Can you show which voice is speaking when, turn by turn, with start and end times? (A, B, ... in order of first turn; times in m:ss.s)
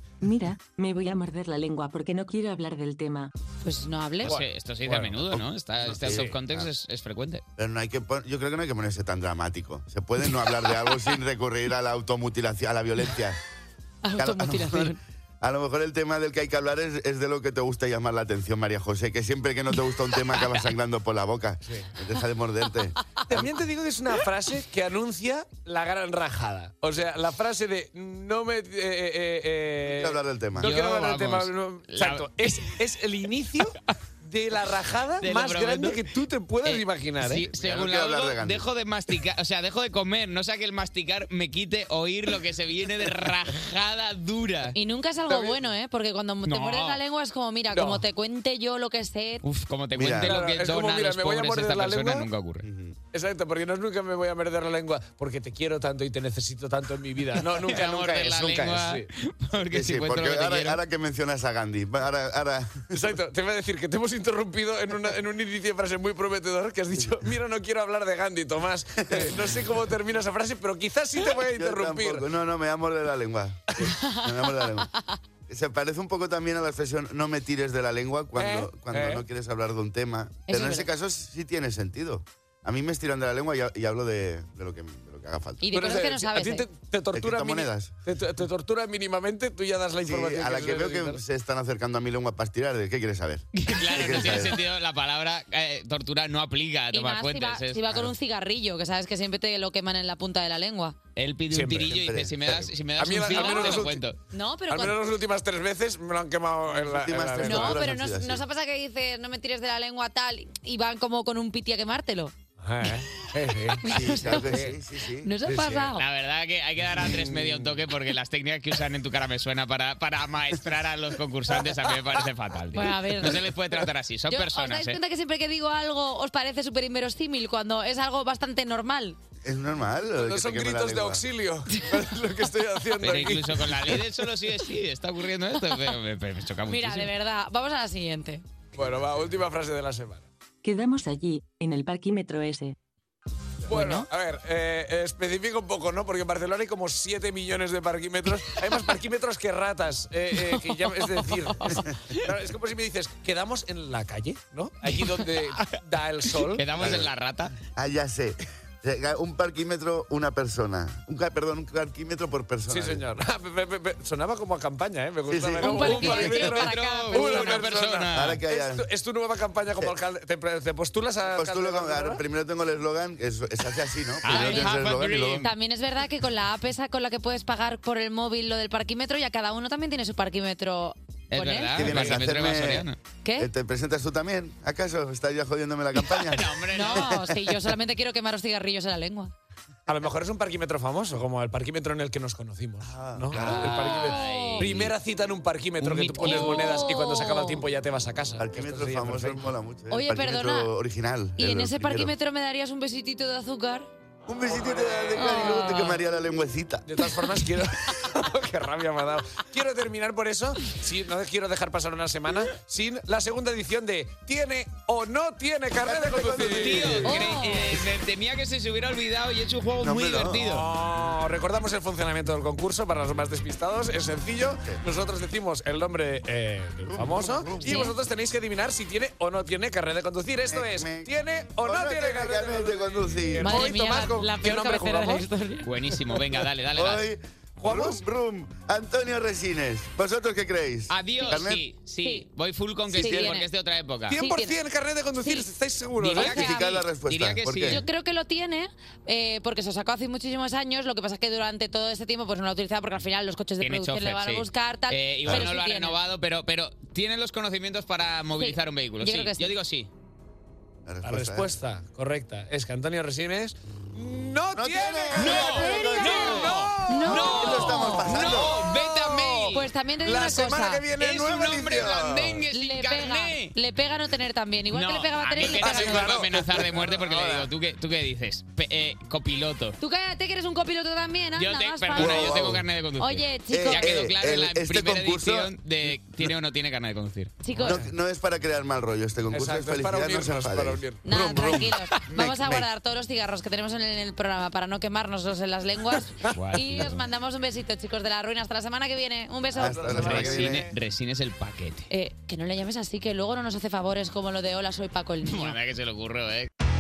0:00.2-0:03.3 A
0:03.6-0:04.3 B
0:04.2-0:05.3 C
0:04.2-0:07.4 D
0:05.3-0:06.7 E
0:05.8-0:06.4 C
0:07.6-0:13.4 E
0:14.0-0:15.0 B
0:14.2-0:23.5 E
0:21.6-0:21.9 C
0:23.2-0:37.5 C
0:29.9-0:30.7 E
0:30.6-0:32.8 D
0:35.2-0:36.0 D
0:36.6-0:44.8 D
0:37.5-0:38.7 E
0:44.7-0:49.4 B
0:45.3-0:45.6 C
0:46.4-0:47.0 D
0:47.7-0:48.0 C
0:49.4-0:52.7 D
0:49.9-0:50.4 E
0:50.2-0:52.3 C
0:52.6-0:53.0 E
0:53.1-0:59.0 C
0:57.5-1:00.8 D
0:59.7-1:03.0 E
1:02.9-1:12.3 C
1:09.0-1:09.4 E
1:11.2-1:14.9 E
1:13.8-1:15.2 B
1:15.5-1:25.7 E
1:18.3-1:19.2 C
1:20.5-1:20.9 B
1:25.6-1:26.7 B
1:25.7-1:31.2 C
1:27.1-1:28.0 E
1:30.0-1:34.6 E
1:33.7-1:37.8 D
1:33.7-1:34.5 B
1:36.9-1:41.0 B
1:41.2-1:44.2 D
1:41.5-1:41.9 C
1:41.8-1:42.7 E
1:43.0-1:44.0 C
1:43.3-1:45.0 B
1:44.7-1:47.9 C
1:46.8-1:48.4 E
1:47.4-1:52.3 B
1:52.6-1:54.8 C
1:53.8-1:54.7 B
1:53.8-1:55.3 E
1:55.2-1:56.0 B
1:55.4-1:55.9 C
1:55.9-2:05.0 D
1:57.0-1:57.6 C
2:02.7-2:03.5 B
2:04.3-2:09.2 B
2:09.4-2:11.2 E
2:10.1-2:14.0 C
2:13.0-2:17.1 D
2:16.7-2:18.4 B
2:18.7-2:20.3 C
2:20.6-2:22.8 A
2:23.7-2:37.0 C
2:23.8-2:24.0 A
2:30.8-2:31.9 B
2:36.4-2:37.5 D
2:36.8-2:37.1 E
2:37.7-2:43.0 E
2:42.7-2:52.2 C
2:45.3-2:46.4 E
2:45.6-2:47.7 B
2:46.1-2:48.4 D
2:48.1-2:48.8 E
2:51.3-2:55.5 E
2:54.2-2:55.5 D
2:54.2-2:54.8 B
2:55.4-3:02.0 B
3:01.3-3:03.0 D
3:01.8-3:07.3 E
3:03.2-3:03.5 B
3:06.1-3:07.2 D
3:06.7-3:09.3 B
3:09.9-3:19.5 C
3:12.8-3:13.8 E
3:13.3-3:14.9 D
3:13.6-3:14.7 B
3:15.8-3:16.8 D
3:16.2-3:17.6 B
3:18.4-3:22.1 E
3:19.9-3:20.7 B
3:21.4-3:23.9 B
3:24.2-3:27.1 E
3:24.4-3:25.8 C
3:25.1-3:26.0 B
3:26.8-3:37.1 C
3:35.8-3:37.2 E
3:36.5-3:40.7 D
3:37.0-3:37.8 B
3:39.8-3:40.5 E
3:40.3-3:55.3 C
3:46.9-3:47.9 E
3:47.6-3:48.0 B
3:50.5-3:51.1 E
3:51.6-3:53.7 E
3:53.4-3:55.7 B
3:55.6-3:57.0 D
3:56.7-4:01.6 E
3:57.6-3:58.0 C
4:00.9-4:04.2 D
4:01.2-4:01.4 B
4:02.9-4:03.5 B
4:02.9-4:03.3 E
4:04.1-4:06.4 C
4:04.1-4:04.6 B
4:05.2-4:05.5 B
4:06.0-4:07.8 D
4:06.1-4:06.7 B
4:06.2-4:07.8 E
4:07.6-4:16.0 B
4:13.6-4:19.9 D
4:18.4-4:19.5 B
4:20.8-4:21.5 E
4:21.0-4:32.4 C
4:24.6-4:28.6 E
4:25.2-4:29.7 D
4:25.3-4:28.3 B
4:29.5-4:30.8 B
4:31.0-4:33.5 D
4:32.5-4:36.2 B
4:34.7-4:39.8 D
4:35.6-4:37.5 C
4:39.8-4:42.4 B
4:41.4-4:47.4 D
4:41.9-4:42.6 E
4:43.0-4:44.1 B
4:43.5-4:45.5 E
4:47.4-4:47.8 B
4:47.6-4:52.7 E
4:49.3-4:51.6 C
4:51.0-5:00.2 B
4:56.3-4:57.0 D
4:59.5-5:00.7 E
4:59.6-5:00.7 C
4:59.9-5:01.9 D
5:01.9-5:05.6 B
5:05.2-5:06.5 D